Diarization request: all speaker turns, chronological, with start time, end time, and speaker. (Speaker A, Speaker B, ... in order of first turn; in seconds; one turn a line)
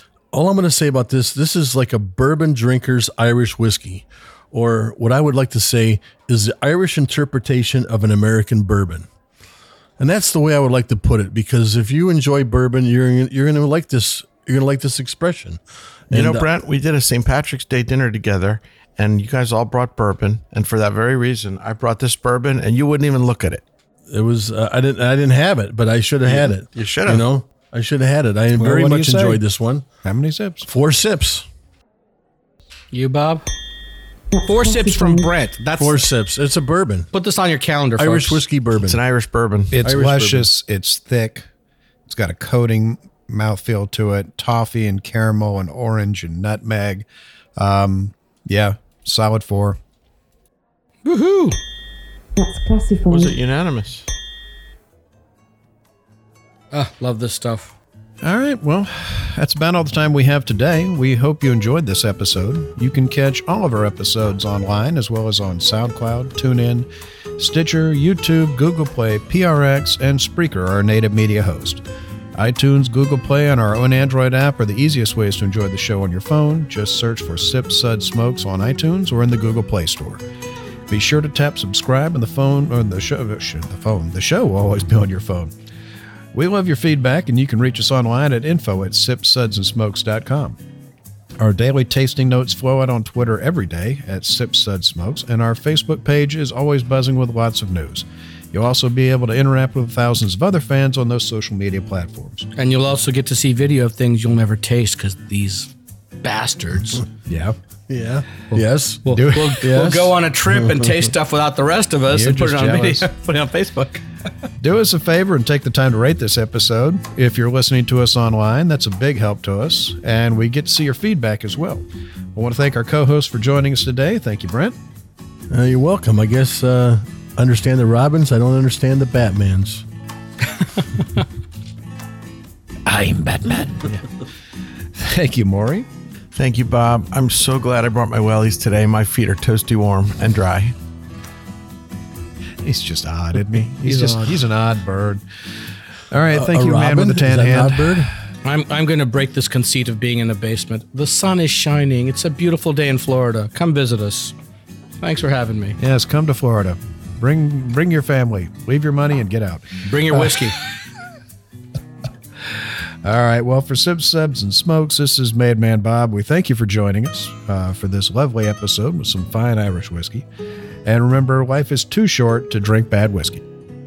Speaker A: 0.3-9.1
Speaker A: 10.0-16.5
Speaker B: 16.1-23.6
Speaker A: 24.1-29.8
Speaker B: 26.3-27.3
Speaker C: 28.6-29.4
Speaker C: 30.0-30.7
Speaker A: 30.6-31.4
Speaker D: 32.9-33.5
Speaker E: 34.3-35.3
Speaker D: 34.4-36.1
Speaker A: 35.8-37.1
Speaker D: 37.1-38.4
Speaker A: 38.0-39.0
Speaker B: 38.8-39.7
Speaker C: 39.7-41.5
Speaker A: 39.8-40.5
Speaker C: 42.1-49.8
Speaker D: 51.0-51.6
Speaker E: 52.4-53.4
Speaker B: 53.1-54.0
Speaker D: 56.7-57.8
Speaker C: 58.2-71.8
Speaker C: 72.3-80.2
Speaker C: 80.9-85.5
Speaker C: 86.3-90.6
Speaker C: 91.4-102.5
Speaker D: 102.6-107.0
Speaker C: 107.3-107.6
Speaker A: 107.9-111.1
Speaker C: 108.5-109.6
Speaker D: 109.0-114.0
Speaker C: 112.1-113.1
Speaker C: 114.6-124.8
Speaker A: 125.5-129.8
Speaker C: 132.9-134.1
Speaker C: 134.9-135.9
Speaker B: 136.4-140.8
Speaker C: 142.6-145.2
Speaker D: 143.8-144.3
Speaker C: 146.1-148.1
Speaker A: 146.3-148.1
Speaker D: 148.4-154.3
Speaker D: 155.0-155.8
Speaker C: 155.8-160.5
Speaker D: 159.8-160.6
Speaker C: 163.0-170.3
Speaker C: 170.8-173.4